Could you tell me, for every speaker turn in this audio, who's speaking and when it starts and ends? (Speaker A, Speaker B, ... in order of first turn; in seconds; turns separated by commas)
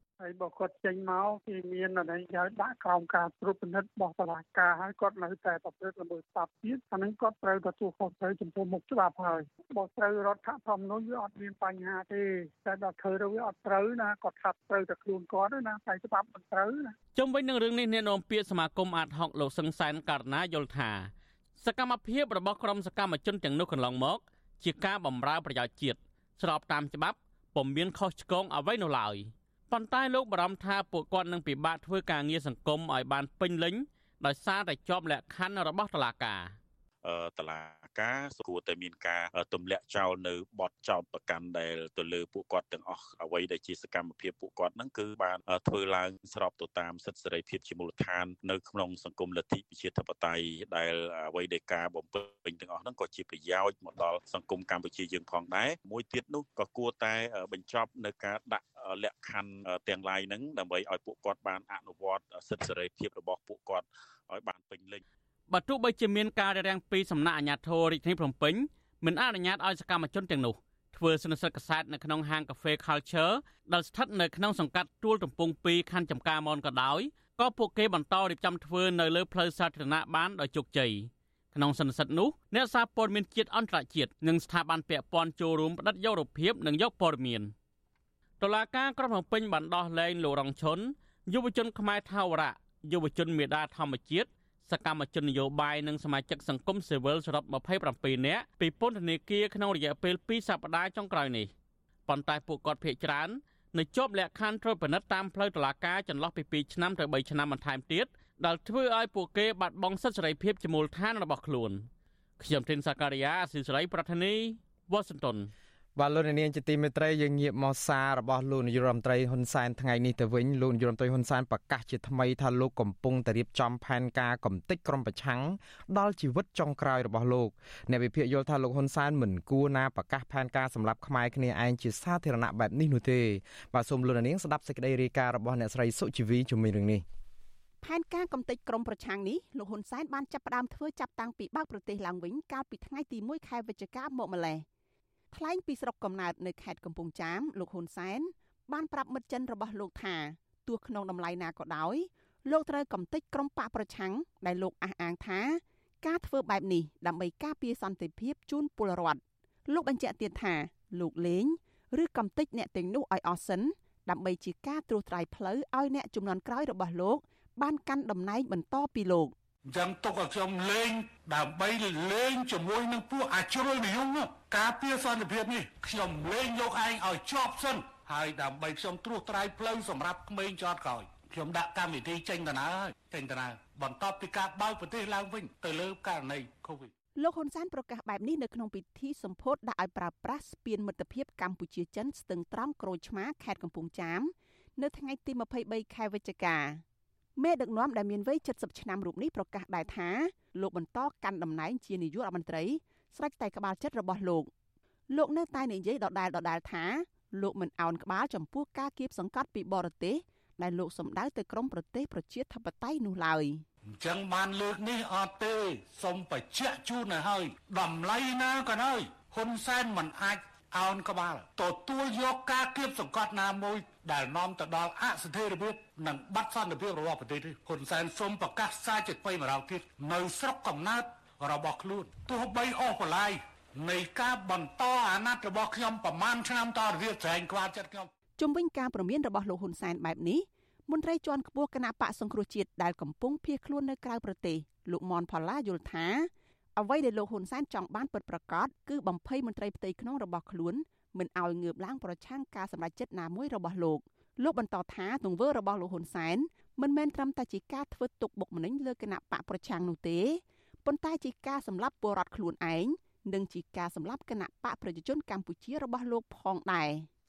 Speaker A: 0.2-16.9, Speaker B: 17.1-36.5, Speaker C: 37.0-65.0, Speaker B: 65.5-87.5, Speaker B: 88.4-101.5, Speaker B: 102.1-111.9, Speaker B: 112.4-115.5, Speaker D: 116.0-137.1, Speaker E: 137.8-144.7, Speaker E: 145.3-169.3, Speaker F: 169.7-186.9, Speaker E: 187.2-196.8, Speaker E: 197.4-204.5, Speaker E: 205.1-213.6, Speaker F: 214.0-238.1, Speaker E: 238.4-267.1